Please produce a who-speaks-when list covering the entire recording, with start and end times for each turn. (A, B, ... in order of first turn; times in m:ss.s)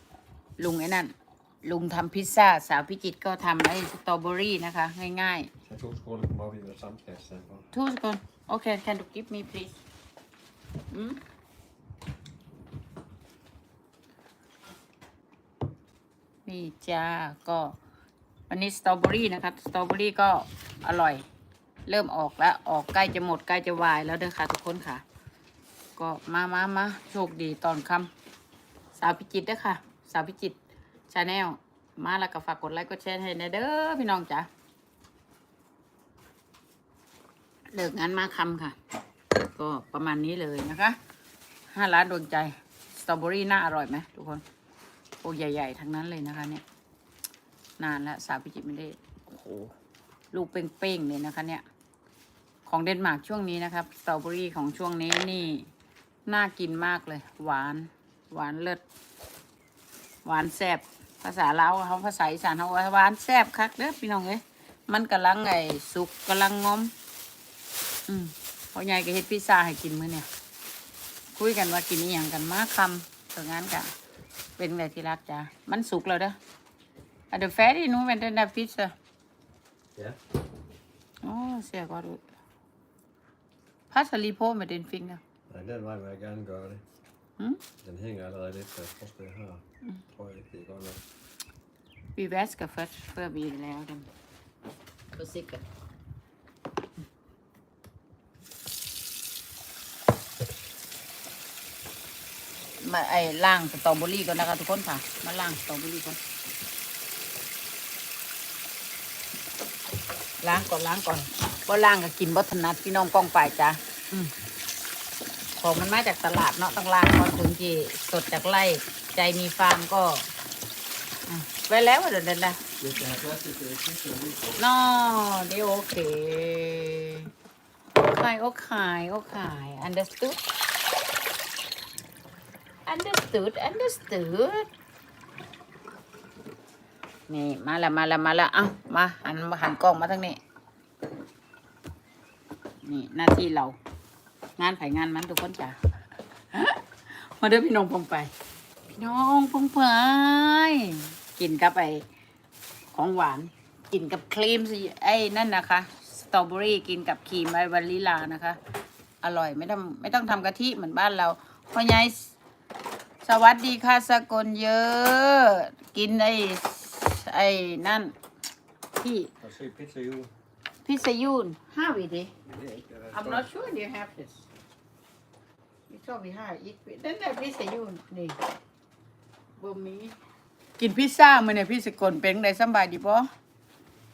0:00.6-0:05.5 A
0:05.6-0:07.7 B
0:07.7-0:09.8 A
0:10.9-0:11.2 A
0:16.4-0:17.8 A
0:18.5-0:21.2 A
0:21.8-0:25.0 A
0:26.0-0:28.1 A
0:28.9-0:30.6 A
0:31.1-0:34.5 A
0:37.7-0:38.8 A
0:39.3-0:41.0 A
0:41.7-0:44.4 A
0:45.2-0:46.6 A
0:47.8-0:49.7 A
0:50.3-0:51.6 A
0:52.6-0:55.7 A
0:56.2-0:58.8 A
1:00.2-1:06.9 A
1:08.1-1:10.3 A
1:11.3-1:13.9 A
1:14.6-1:16.4 A
1:17.3-1:18.9 A
1:21.2-1:22.2 A
1:23.9-1:25.2 A
1:25.5-1:26.8 B
1:27.8-1:31.0 B
1:32.2-1:34.1 A
1:35.1-1:35.6 A
1:42.8-1:46.2 A
1:50.4-1:54.3 A
1:55.6-2:00.3 A
2:01.3-2:02.6 A
2:02.8-2:04.6 B
2:04.6-2:07.3 A
2:08.0-2:10.4 A
2:12.8-2:14.7 A
2:17.3-2:20.4 A
2:22.8-2:23.8 A
2:24.6-2:28.3 A
2:28.9-2:32.1 A
2:32.9-2:38.6 A
2:39.2-2:42.3 A
2:43.2-2:48.1 A
2:48.9-2:49.3 A
2:49.4-2:50.3 B
2:50.8-2:52.3 A
2:52.4-2:53.5 B
2:53.1-2:54.5 A
2:55.9-2:58.4 A
2:59.6-3:00.2 A
3:00.8-3:03.3 A